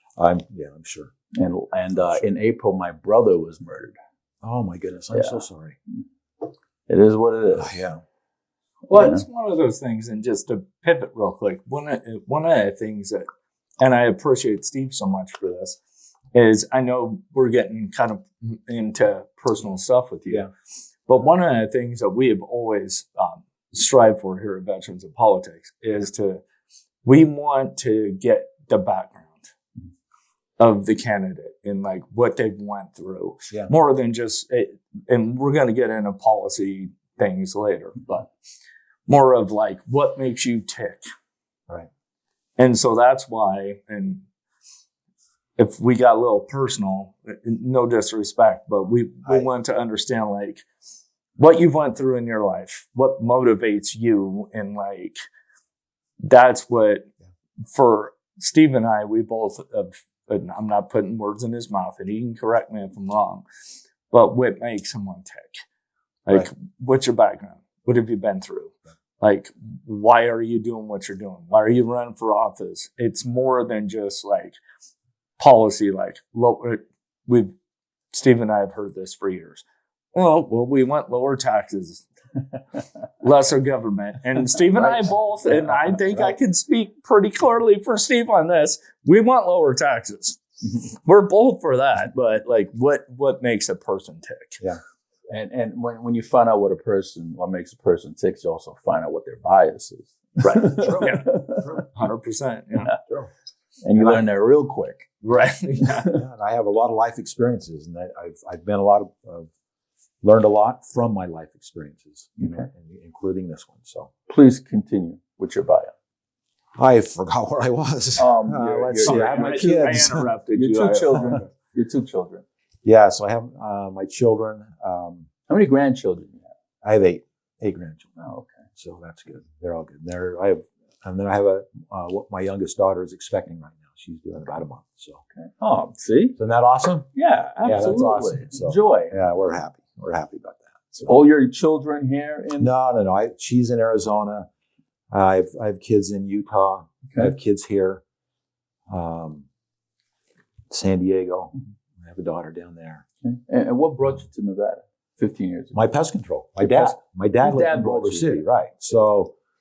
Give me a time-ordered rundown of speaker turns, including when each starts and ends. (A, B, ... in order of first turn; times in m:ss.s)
0:00.2-0:01.1 A
0:01.4-0:04.0 B
0:04.4-0:05.8 A
0:05.1-0:05.4 B
0:06.9-0:07.7 B
0:07.6-0:08.0 A
0:08.9-0:09.2 B
0:08.9-0:13.2 C
0:13.8-0:15.8 C
0:16.3-0:20.5 C
0:21.1-0:26.4 C
0:27.0-0:29.5 C
0:30.6-0:38.3 C
0:39.1-0:41.0 C
0:42.6-0:44.2 C
0:45.6-0:50.6 C
0:51.4-0:55.2 C
0:56.2-0:57.1 C
0:57.7-1:03.4 C
1:04.1-1:05.6 C
1:06.2-1:14.6 C
1:15.4-1:17.5 C
1:18.1-1:22.0 C
1:23.2-1:34.6 C
1:35.3-1:41.6 B
1:40.4-1:42.9 C
1:40.7-1:41.9 A
1:42.9-1:43.3 A
1:43.8-1:45.1 B
1:45.2-1:46.2 C
1:46.1-1:49.5 A
1:50.2-1:54.1 A
1:54.3-1:55.9 B
1:56.8-2:00.3 A
1:58.2-2:02.4 B
1:59.0-2:01.3 C
2:01.1-2:01.4 A
2:02.8-2:05.3 A
2:05.5-2:06.5 B
2:06.8-2:08.0 A
2:08.2-2:08.6 B
2:08.8-2:15.2 A
2:15.4-2:16.4 B
2:16.4-2:17.1 A
2:17.1-2:19.2 B
2:17.6-2:21.2 A
2:21.0-2:22.7 B
2:22.6-2:24.5 A
2:25.1-2:28.0 A
2:28.9-2:29.4 A
2:30.7-2:33.0 A
2:33.2-2:35.9 B
2:35.7-2:39.3 A
2:36.6-2:38.4 B